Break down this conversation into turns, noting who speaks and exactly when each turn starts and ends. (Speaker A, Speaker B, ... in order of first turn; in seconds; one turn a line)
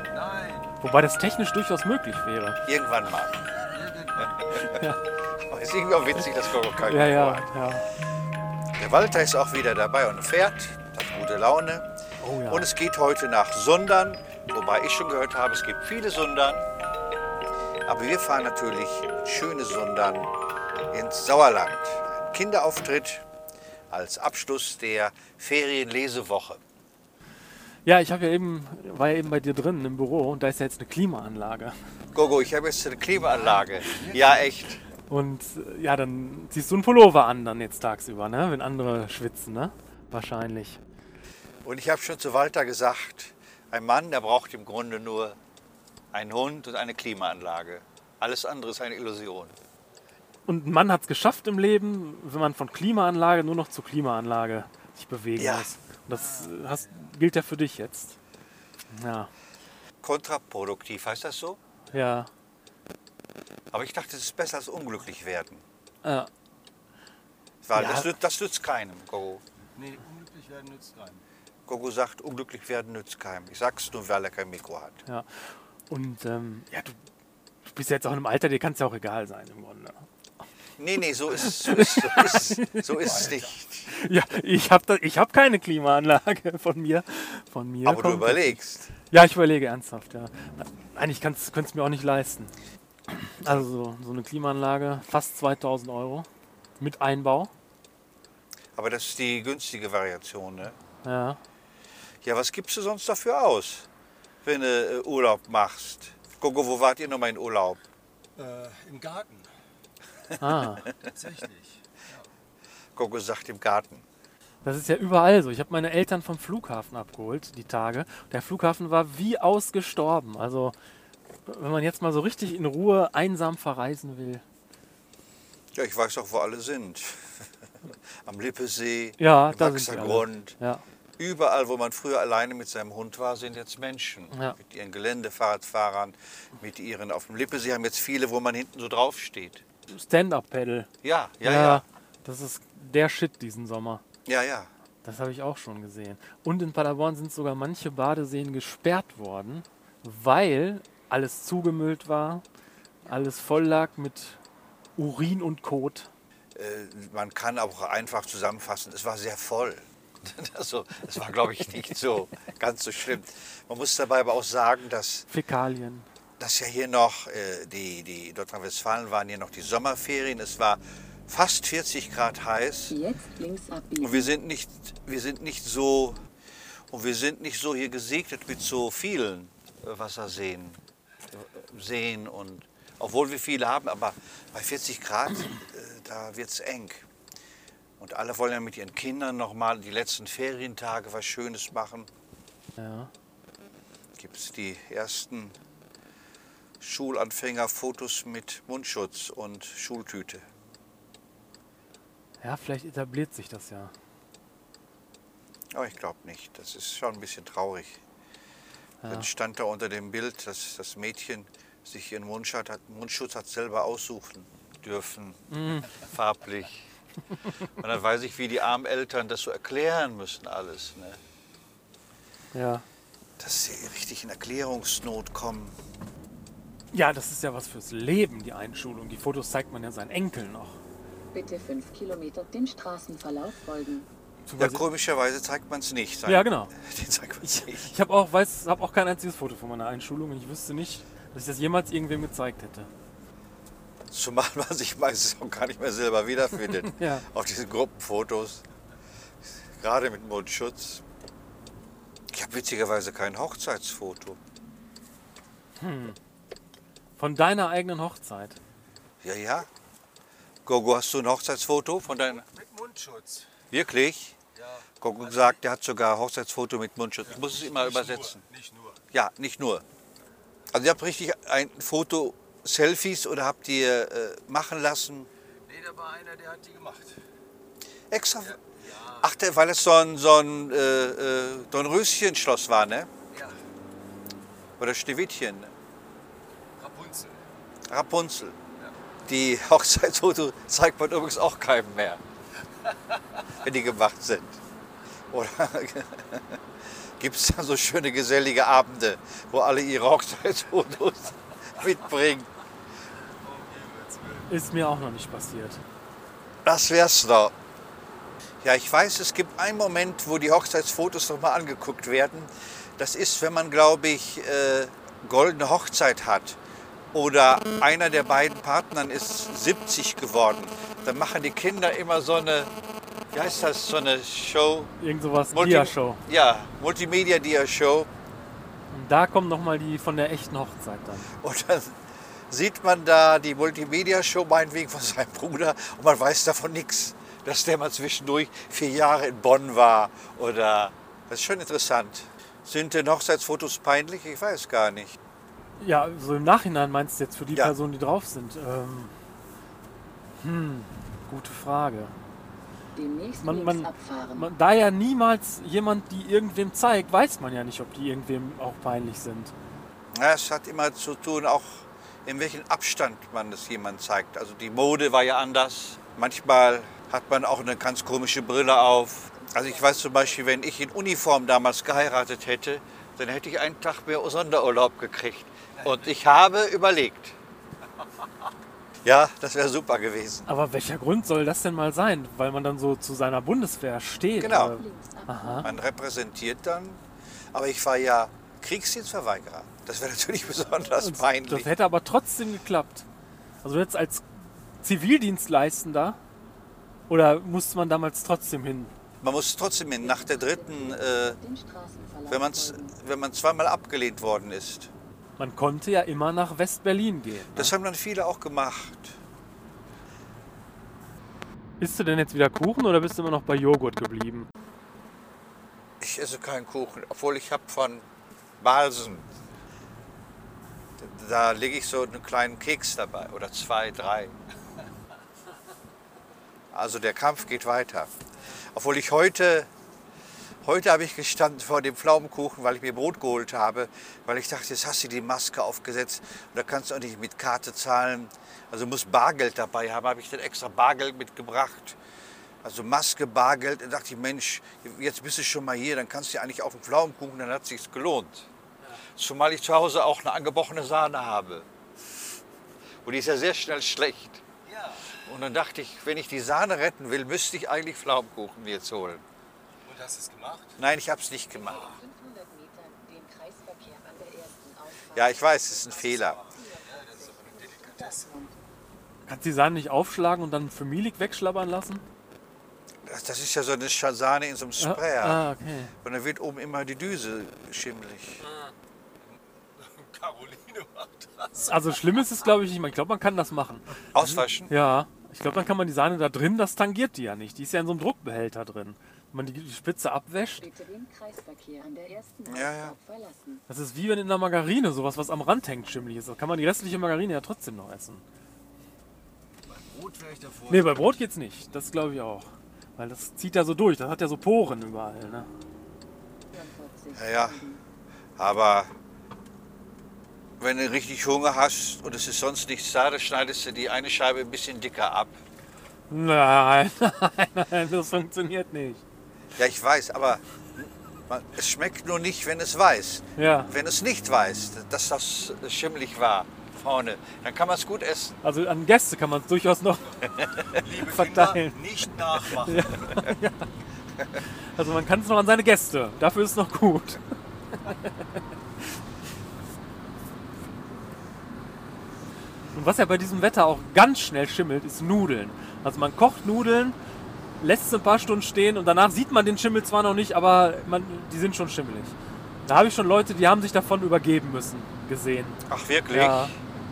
Speaker A: 0.1-0.7
Speaker B: 0.8-2.6
Speaker C: 2.6-3.4
Speaker A: 3.6-4.5
Speaker B: 4.5-5.0
Speaker C: 5.3-7.5
Speaker B: 6.8-7.9
Speaker C: 8.8-11.9
Speaker B: 12.2-12.7
Speaker C: 12.5-16.6
Speaker C: 17.9-20.3
Speaker C: 20.9-23.2
Speaker C: 23.9-26.6
Speaker B: 27.8-31.7
Speaker C: 32.1-34.8
Speaker A: 33.1-34.4
Speaker B: 35.1-40.8
Speaker C: 41.6-45.4
Speaker C: 46.1-49.5
Speaker B: 50.5-58.2
Speaker C: 55.4-55.7
Speaker A: 56.1-57.1
Speaker B: 58.9-59.3
Speaker C: 60.0-61.6
Speaker B: 61.9-62.3
Speaker C: 63.7-65.6
Speaker B: 66.0-66.3
Speaker C: 67.6-69.4
Speaker B: 67.7-68.1
Speaker A: 69.8-71.2
Speaker C: 71.7-75.0
Speaker B: 75.0-76.9
Speaker B: 77.7-80.0
Speaker C: 80.8-83.9
Speaker B: 81.3-83.3
Speaker B: 83.8-92.5
Speaker C: 87.8-88.9
Speaker B: 93.1-96.3
Speaker B: 96.8-97.5
Speaker C: 98.7-100.8
Speaker B: 101.0-101.4
Speaker C: 102.2-103.9
Speaker C: 104.4-107.8
Speaker A: 108.3-109.5
Speaker B: 110.4-110.9
Speaker A: 111.0-112.3
Speaker C: 113.0-114.0
Speaker B: 114.6-120.7
Speaker B: 121.5-124.4
Speaker C: 125.7-130.5
Speaker B: 129.2-130.8
Speaker C: 131.2-139.6
Speaker B: 139.9-140.9
Speaker C: 141.0-141.8
Speaker B: 141.4-144.0
Speaker C: 144.2-144.7
Speaker B: 145.0-152.4
Speaker B: 153.0-154.4
Speaker B: 155.0-156.1
Speaker C: 156.5-165.3
Speaker B: 165.3-166.1
Speaker C: 166.4-172.9
Speaker D: 172.9-174.3
Speaker C: 174.0-176.2
Speaker C: 176.9-180.8
Speaker C: 181.3-187.1
Speaker C: 188.0-192.1
Speaker B: 192.8-193.1
Speaker C: 194.2-195.5
Speaker C: 196.8-200.4
Speaker B: 202.4-203.9
Speaker C: 205.7-208.0
Speaker B: 209.0-209.3
Speaker C: 209.1-216.9
Speaker B: 215.5-215.9
Speaker C: 217.7-221.2
Speaker B: 222.5-222.8
Speaker C: 223.4-225.8
Speaker B: 226.9-230.8
Speaker D: 231.3-234.1
Speaker B: 234.4-234.8
Speaker C: 234.6-237.9
Speaker B: 236.2-236.7
Speaker B: 237.4-242.9
Speaker C: 244.1-248.6
Speaker B: 246.8-247.2
Speaker C: 249.8-251.0
Speaker C: 252.3-254.4
Speaker B: 255.8-256.2
Speaker B: 257.2-258.6
Speaker C: 259.2-259.7
Speaker C: 260.6-262.4
Speaker A: 262.1-263.5
Speaker C: 263.7-264.4
Speaker A: 264.5-265.6
Speaker C: 265.0-268.4
Speaker A: 267.2-269.0
Speaker C: 269.1-269.8
Speaker C: 270.7-275.3
Speaker A: 275.7-277.2
Speaker C: 278.1-278.6
Speaker A: 278.4-279.3
Speaker C: 279.2-283.1
Speaker A: 283.3-283.6
Speaker C: 284.8-285.7
Speaker A: 286.8-287.5
Speaker C: 287.9-288.6
Speaker C: 289.3-292.2
Speaker C: 293.6-294.6
Speaker C: 295.3-296.6
Speaker C: 297.2-302.5
Speaker A: 303.4-304.5
Speaker B: 304.5-305.8
Speaker C: 306.6-307.5
Speaker C: 308.6-316.6
Speaker C: 317.1-322.7
Speaker C: 323.3-324.9
Speaker B: 325.0-326.2
Speaker C: 325.5-328.1
Speaker B: 328.9-331.3
Speaker C: 331.4-331.9
Speaker C: 332.5-345.2
Speaker B: 345.8-349.1
Speaker B: 350.4-352.1
Speaker D: 352.9-354.5
Speaker B: 353.4-359.5
Speaker C: 360.1-377.4
Speaker D: 369.3-370.3
Speaker A: 375.8-376.1
Speaker C: 379.0-380.5
Speaker B: 380.5-385.7
Speaker C: 384.4-384.8
Speaker D: 384.4-385.7
Speaker C: 385.6-387.0
Speaker C: 387.5-391.7
Speaker B: 390.9-393.0
Speaker B: 393.6-396.2
Speaker B: 397.1-398.9
Speaker C: 399.2-401.4
Speaker D: 400.0-402.9
Speaker C: 402.3-404.9
Speaker B: 405.4-407.7
Speaker C: 407.5-409.1
Speaker B: 411.8-414.5
Speaker C: 416.0-418.1
Speaker C: 418.6-419.3
Speaker C: 421.0-424.3
Speaker C: 426.7-429.7
Speaker C: 430.6-442.0
Speaker C: 442.6-448.5
Speaker C: 449.2-451.7
Speaker C: 453.0-454.4
Speaker A: 454.6-455.2
Speaker C: 455.2-459.2
Speaker A: 459.9-460.8
Speaker C: 460.8-461.9
Speaker D: 461.5-468.5
Speaker A: 461.6-462.0
Speaker C: 465.1-466.4
Speaker A: 466.1-468.4
Speaker B: 469.2-472.0
Speaker C: 473.0-475.4
Speaker B: 474.8-475.9
Speaker C: 476.0-478.4
Speaker A: 479.2-481.9
Speaker B: 481.6-490.7
Speaker C: 484.1-484.7
Speaker D: 490.6-493.6
Speaker C: 492.4-492.9
Speaker B: 493.7-498.2
Speaker A: 499.7-501.2
Speaker B: 500.7-505.5
Speaker D: 506.5-507.8
Speaker C: 507.1-507.6
Speaker C: 508.4-508.9
Speaker C: 510.6-515.4
Speaker B: 516.1-519.0
Speaker C: 519.6-528.4
Speaker B: 523.4-523.7
Speaker B: 528.4-533.7
Speaker A: 530.6-533.2
Speaker B: 534.5-537.2
Speaker B: 537.7-538.4
Speaker B: 542.7-547.0
Speaker B: 547.6-552.1
Speaker B: 552.6-556.5
Speaker C: 555.7-556.5